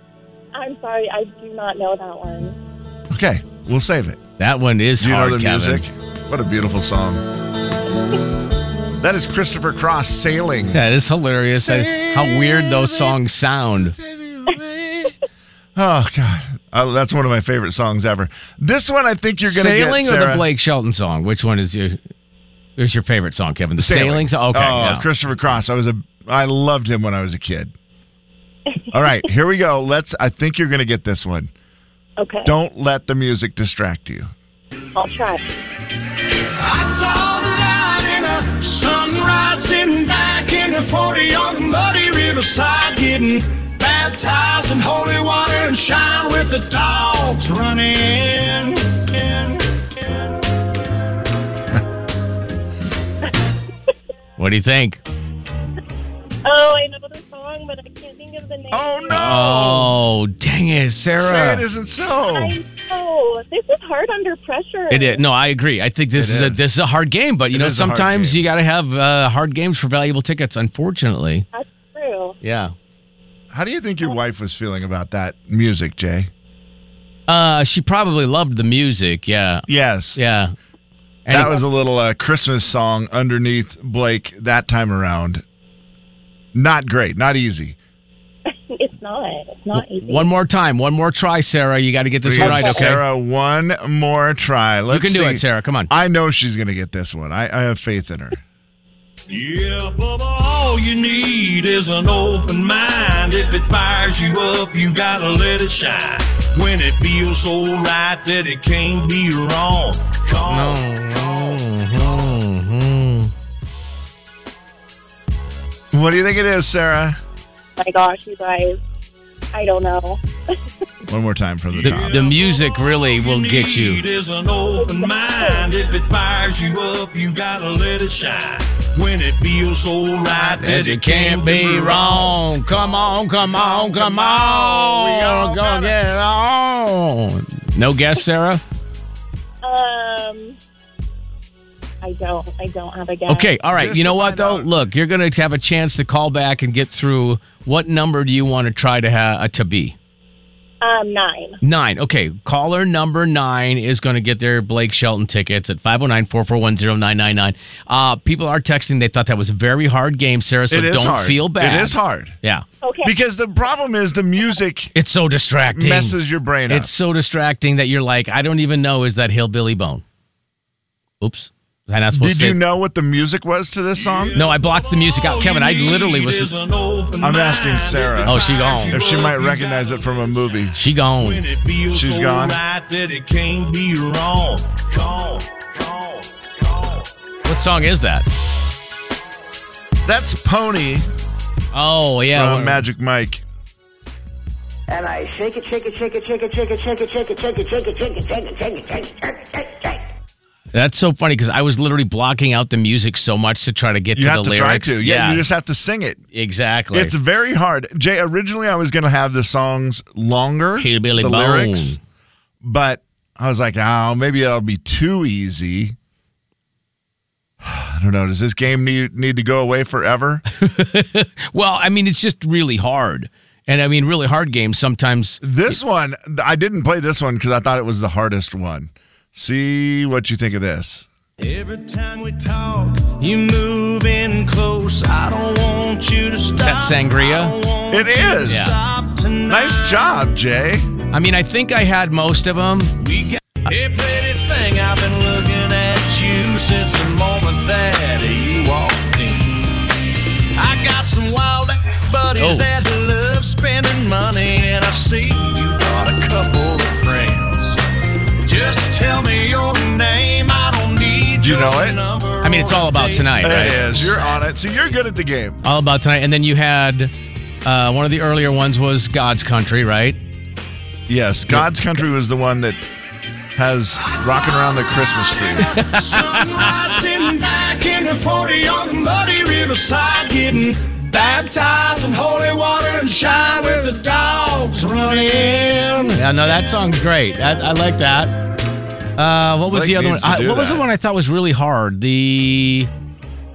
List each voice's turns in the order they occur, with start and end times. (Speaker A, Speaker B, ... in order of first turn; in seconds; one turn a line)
Speaker A: 0.5-2.5
Speaker B: 3.1-4.2
Speaker C: 4.4-5.8
Speaker B: 5.0-7.2
Speaker B: 9.0-10.8
Speaker C: 10.7-13.9
Speaker B: 11.5-13.2
Speaker B: 13.8-15.2
Speaker B: 15.7-20.4
Speaker C: 19.4-22.0
Speaker C: 22.8-25.1
Speaker B: 23.8-27.7
Speaker B: 28.9-31.5
Speaker A: 32.2-32.5
Speaker B: 32.4-34.3
Speaker A: 34.9-35.4
Speaker D: 36.6-49.6
Speaker C: 54.4-55.0
Speaker A: 56.4-59.7
Speaker B: 58.7-59.9
Speaker C: 59.1-61.6
Speaker B: 61.2-62.6
Speaker A: 62.2-65.2
Speaker C: 64.9-71.5
Speaker B: 66.2-66.6
Speaker B: 67.5-68.4
Speaker A: 71.5-72.4
Speaker C: 72.4-72.7
Speaker B: 73.5-76.3
Speaker C: 77.3-80.5
Speaker B: 79.7-80.2
Speaker C: 81.2-81.6
Speaker B: 81.3-85.4
Speaker B: 86.5-87.8
Speaker A: 88.7-90.3
Speaker C: 89.7-93.0
Speaker B: 92.2-98.4
Speaker C: 94.9-95.9
Speaker D: 99.3-111.6
Speaker C: 110.5-113.3
Speaker B: 115.9-117.2
Speaker A: 117.8-118.8
Speaker A: 119.5-120.5
Speaker B: 121.1-122.2
Speaker D: 121.7-133.1
Speaker C: 121.8-124.0
Speaker A: 124.8-125.7
Speaker C: 130.3-138.6
Speaker B: 133.3-136.0
Speaker A: 139.6-140.6
Speaker A: 142.0-143.6
Speaker C: 143.3-149.9
Speaker B: 143.7-144.7
Speaker A: 150.8-151.6
Speaker C: 151.6-162.6
Speaker B: 160.7-162.4
Speaker A: 162.8-163.1
Speaker B: 163.0-164.9
Speaker C: 164.9-170.0
Speaker B: 165.7-166.9
Speaker C: 171.2-172.6
Speaker B: 172.1-174.4
Speaker D: 174.0-180.6
Speaker C: 174.3-176.5
Speaker B: 177.2-180.8
Speaker C: 178.2-179.3
Speaker C: 180.7-181.4
Speaker D: 181.2-187.1
Speaker B: 181.9-182.6
Speaker C: 187.4-188.3
Speaker B: 190.0-191.1
Speaker C: 191.7-192.8
Speaker B: 192.3-193.4
Speaker E: 194.9-200.0
Speaker C: 200.7-205.4
Speaker B: 204.1-206.2
Speaker C: 206.3-207.1
Speaker B: 206.9-211.9
Speaker C: 210.8-212.0
Speaker B: 212.6-215.9
Speaker B: 217.6-220.4
Speaker C: 220.6-225.8
Speaker B: 225.4-231.1
Speaker D: 231.4-239.9
Speaker C: 236.6-237.6
Speaker B: 237.9-238.8
Speaker C: 238.4-238.8
Speaker B: 239.5-240.9
Speaker C: 241.1-243.0
Speaker D: 243.0-249.6
Speaker D: 250.5-257.8
Speaker C: 252.4-252.7
Speaker D: 258.4-263.4
Speaker B: 261.4-262.0
Speaker C: 262.4-264.2
Speaker B: 263.4-265.6
Speaker C: 265.6-267.1
Speaker C: 267.6-270.2
Speaker B: 271.1-272.8
Speaker B: 273.6-275.7
Speaker C: 275.6-276.7
Speaker D: 275.7-286.1
Speaker C: 285.7-288.3
Speaker C: 289.2-292.9
Speaker B: 289.7-290.8